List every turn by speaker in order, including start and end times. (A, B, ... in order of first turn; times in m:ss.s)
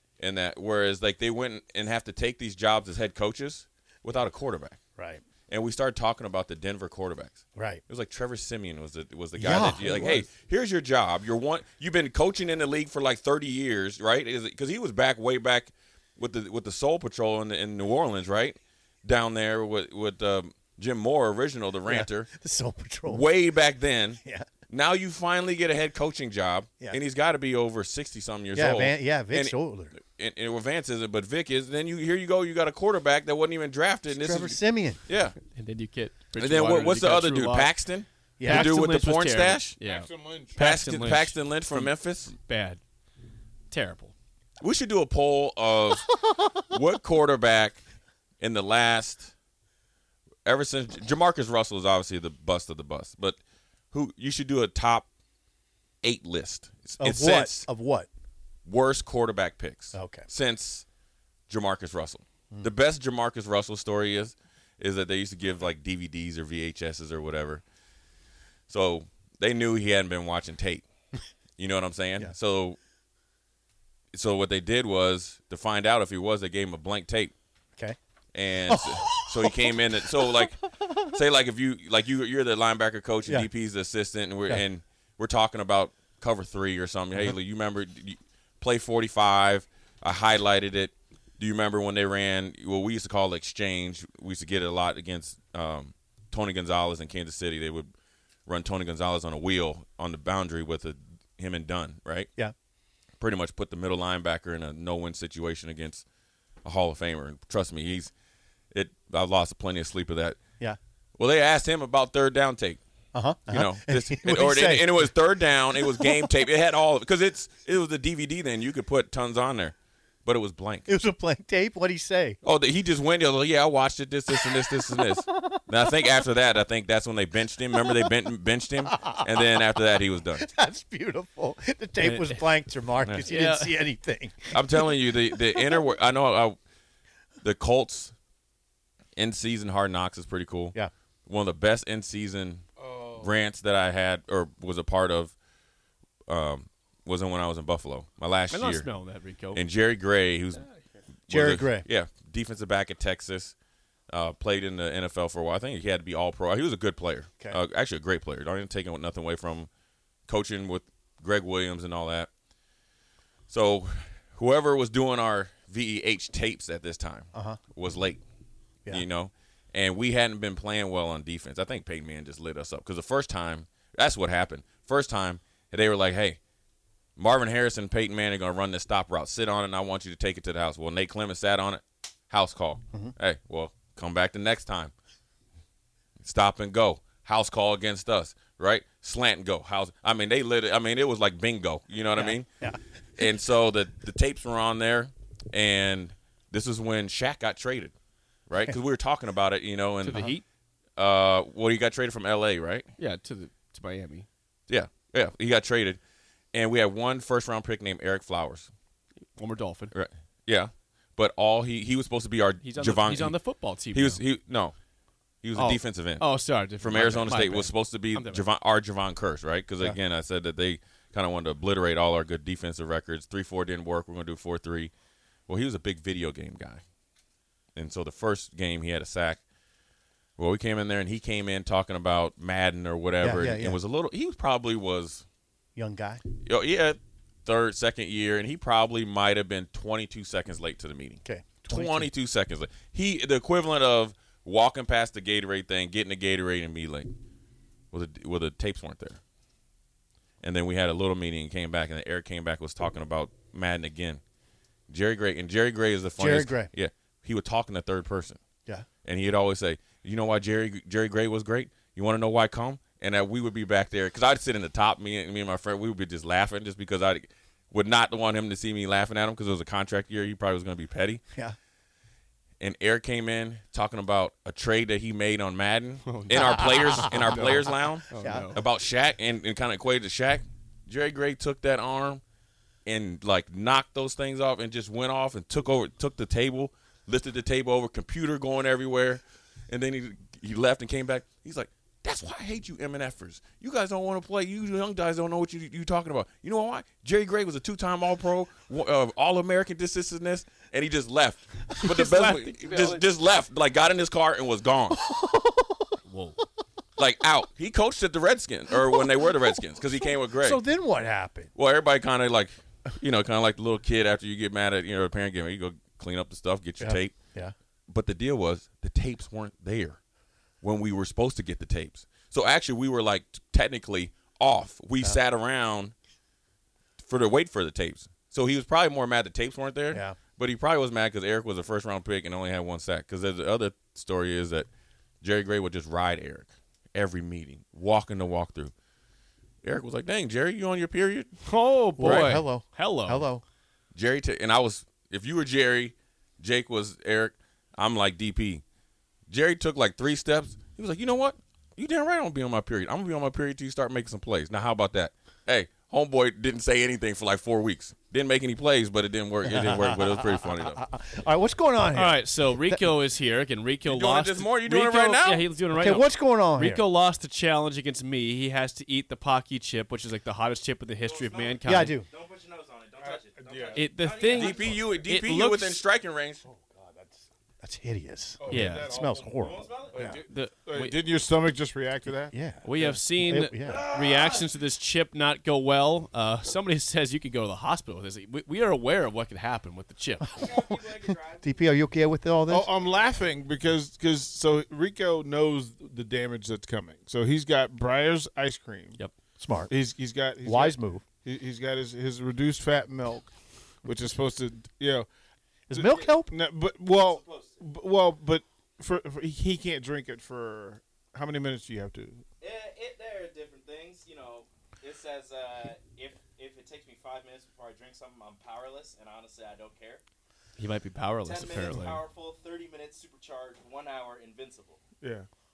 0:00.2-0:04.8 A
0:05.0-0:05.2 B
0:05.5-0:22.3 A
0:09.4-0:10.3 B
0:21.8-0:23.3 B
0:23.1-0:35.4 A
0:24.2-0:24.5 B
0:28.5-0:29.9 B
0:34.1-0:35.0 B
0:35.5-0:37.7 C
0:36.4-0:39.8 A
0:38.4-0:38.7 B
0:38.4-0:42.8 C
0:39.8-0:40.6 D
0:40.6-0:42.3 A
0:43.7-0:44.1 C
0:44.6-0:47.8 A
0:48.4-0:49.3 A
0:50.4-0:53.4 A
0:53.9-0:55.1 A
0:56.0-0:57.7 A
0:57.0-0:58.1 B
0:58.6-1:00.8 A
0:59.9-1:00.3 B
1:01.5-1:07.6 A
1:08.7-1:10.8 A
1:11.6-1:12.8 A
1:14.1-1:17.3 A
1:18.3-1:37.9 A
1:18.7-1:21.1 B
1:38.4-1:42.3 A
1:43.2-1:46.0 A
1:46.6-1:48.1 A
1:48.7-1:50.4 A
1:51.2-1:52.8 A
1:53.1-1:55.1 B
1:53.5-2:00.9 A
1:55.7-1:56.3 B
2:00.9-2:02.4 B
2:02.4-2:10.4 A
2:04.3-2:06.2 B
2:07.8-2:08.1 B
2:08.9-2:15.8 B
2:12.0-2:12.4 C
2:13.2-2:13.7 C
2:14.5-2:16.6 A
2:17.4-2:18.1 A
2:19.2-2:25.3 A
2:22.9-2:23.3 D
2:26.3-2:28.9 A
2:28.5-2:29.6 C
2:29.5-2:30.6 A
2:31.3-2:33.5 A
2:31.3-2:31.8 B
2:34.1-2:39.7 A
2:40.3-2:42.3 A
2:43.5-2:48.2 A
2:47.3-2:47.6 B
2:48.9-2:56.4 A
2:57.2-3:04.9 A
3:06.2-3:12.5 A
3:12.2-3:13.2 B
3:13.2-3:17.9 A
3:18.5-3:20.3 A
3:20.0-3:20.4 C
3:21.0-3:22.9 A
3:23.0-3:24.3 C
3:24.7-3:26.0 A
3:26.5-3:28.7 A
3:29.4-3:29.9 C
3:29.9-3:33.4 A
3:32.6-3:34.2 C
3:33.9-3:34.7 A
3:35.4-3:36.2 A
3:35.6-3:38.4 C
3:36.8-3:44.9 A
3:45.5-3:46.8 A
3:47.7-3:49.4 A
3:50.4-3:55.2 A
3:53.2-3:53.8 B
3:55.8-3:56.2 B
3:56.4-4:07.1 A
4:01.2-4:02.1 B
4:07.9-4:09.2 A
4:10.4-4:14.2 A
4:14.9-4:18.4 A
4:16.2-4:16.7 B
4:19.0-4:31.2 A
4:32.6-4:42.2 A
4:36.0-4:37.5 C
4:36.3-4:38.5 B
4:38.1-4:38.6 C
4:42.8-5:05.0 A
5:01.8-5:03.0 C
5:04.9-5:05.9 B
5:06.0-5:06.4 C
5:07.0-5:10.6 A
5:08.7-5:11.5 B
5:11.6-5:17.1 A
5:16.8-5:17.5 B
5:17.9-5:20.0 A
5:20.6-5:25.9 A
5:27.0-5:34.7 A
5:29.9-5:30.2 B
5:35.2-5:38.7 A
5:39.6-5:41.3 A
5:41.4-5:43.2 C
5:42.0-5:43.4 B
5:42.0-5:42.4 A
5:43.9-5:48.6 A
5:49.3-6:00.8 A
5:59.4-6:02.9 B
6:01.9-6:12.0 C
6:03.8-6:05.5 A
6:05.7-6:06.8 B
6:11.0-6:14.8 E
6:11.6-6:12.1 B
6:13.0-6:13.9 D
6:13.7-6:15.8 C
6:14.3-6:16.4 A
6:16.4-6:20.2 B
6:18.4-6:22.9 D
6:18.5-6:18.9 C
6:19.3-6:20.1 E
6:20.0-6:21.0 C
6:22.3-6:23.8 B
6:22.6-6:30.4 C
6:23.7-6:24.4 D
6:30.2-6:30.8 B
6:30.3-6:31.6 E
6:31.4-6:32.7 B
6:32.5-6:39.0 D
6:32.8-6:33.2 E
6:39.4-6:39.7 B
6:39.7-6:43.3 D
6:40.4-6:41.0 B
6:43.8-6:45.1 D
6:45.7-6:46.3 B
6:45.7-6:52.2 D
6:46.9-6:47.6 E
6:52.4-7:00.0 E
7:00.6-7:02.0 C
7:01.2-7:04.8 E
7:05.0-7:05.3 D